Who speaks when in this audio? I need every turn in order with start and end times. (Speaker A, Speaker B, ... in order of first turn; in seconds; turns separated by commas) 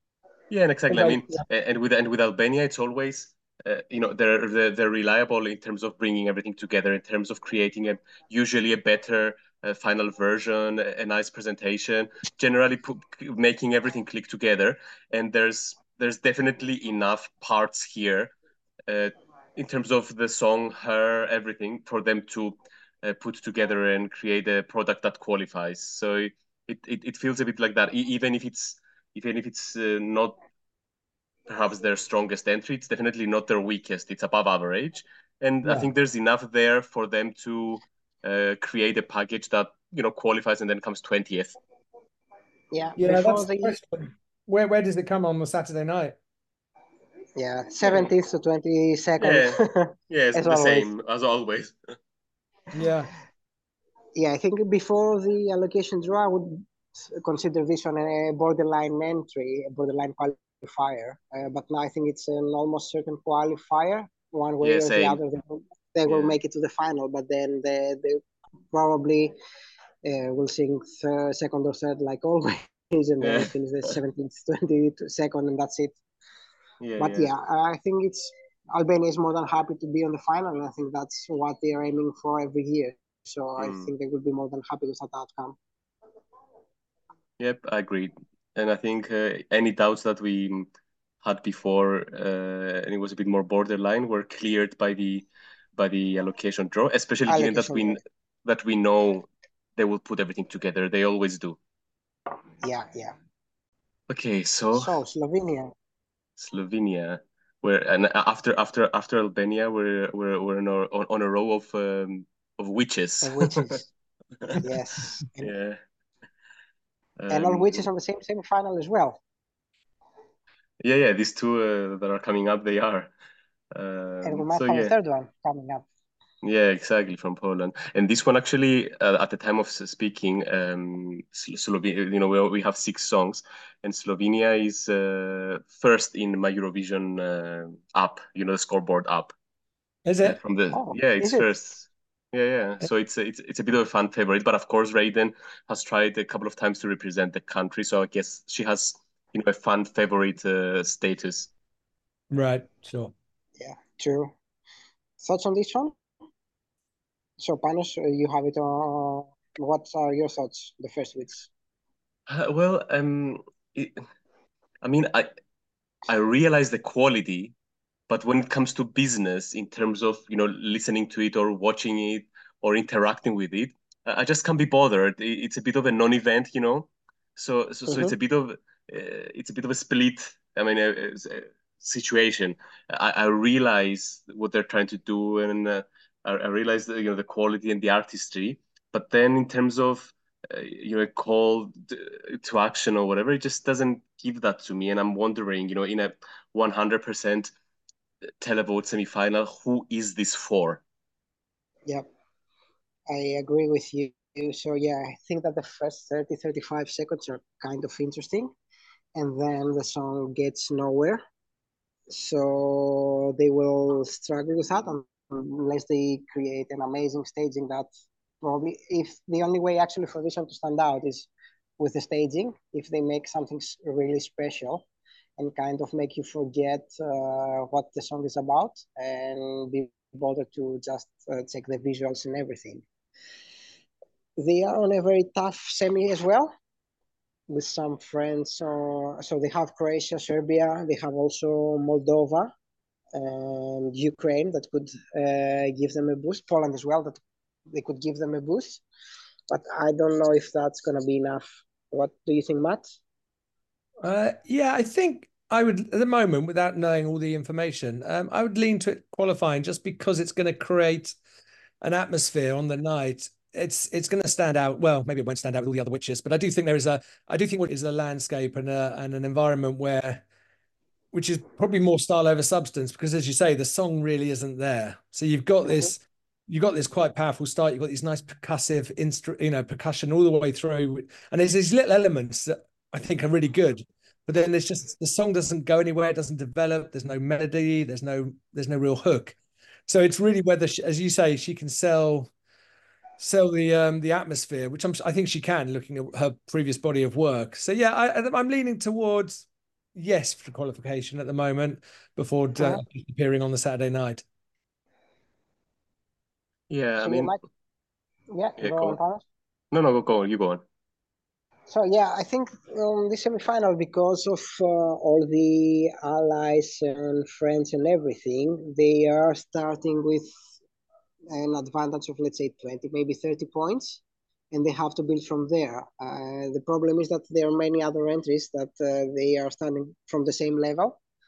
Speaker A: 0.5-18.3, Speaker B: 0.9-1.4, Speaker A: 18.9-30.4, Speaker A: 31.5-41.5, Speaker B: 42.7-43.8, Speaker C: 43.0-46.1, Speaker B: 47.4-50.9, Speaker A: 47.8-48.1, Speaker A: 49.2-51.8, Speaker C: 52.8-53.1, Speaker B: 54.2-68.2, Speaker A: 64.6-65.2, Speaker A: 66.1-66.4, Speaker B: 68.7-69.3, Speaker B: 70.0-76.0, Speaker A: 73.2-73.5, Speaker A: 76.8-77.3, Speaker B: 77.0-85.6, Speaker A: 83.6-83.9, Speaker A: 87.4-90.7, Speaker A: 91.2-101.6, Speaker B: 97.3-98.0, Speaker B: 102.6-103.1, Speaker A: 104.1-104.9, Speaker B: 104.8-105.7, Speaker A: 106.4-113.8, Speaker B: 113.2-113.9, Speaker B: 114.6-115.5, Speaker A: 115.4-115.8, Speaker A: 117.2-117.9, Speaker B: 117.3-119.2, Speaker A: 120.8-123.1, Speaker A: 123.8-124.9, Speaker B: 124.2-125.8, Speaker A: 126.4-139.3, Speaker C: 140.1-140.4, Speaker A: 140.2-151.5, Speaker B: 140.7-141.5, Speaker C: 152.3-153.1, Speaker B: 153.6-154.3, Speaker B: 155.2-155.9, Speaker B: 157.4-161.5, Speaker A: 162.3-164.0, Speaker A: 164.8-165.3, Speaker A: 166.1-167.6, Speaker A: 168.1-197.5, Speaker B: 177.9-178.2, Speaker A: 198.4-200.8, Speaker B: 203.1-208.5, Speaker B: 209.2-211.2, Speaker B: 212.1-217.9, Speaker B: 218.4-224.9, Speaker B: 225.4-232.8, Speaker B: 234.4-236.5, Speaker B: 237.5-242.5, Speaker B: 243.1-248.8, Speaker B: 249.5-252.8, Speaker C: 254.0-261.1, Speaker C: 261.8-270.2, Speaker C: 271.1-289.4, Speaker B: 275.7-275.9, Speaker C: 289.9-292.3, Speaker C: 293.2-304.2, Speaker A: 306.7-307.4, Speaker B: 307.0-307.4, Speaker B: 308.3-309.2, Speaker A: 308.6-309.0, Speaker A: 309.7-310.6, Speaker B: 311.7-320.3, Speaker B: 321.3-331.0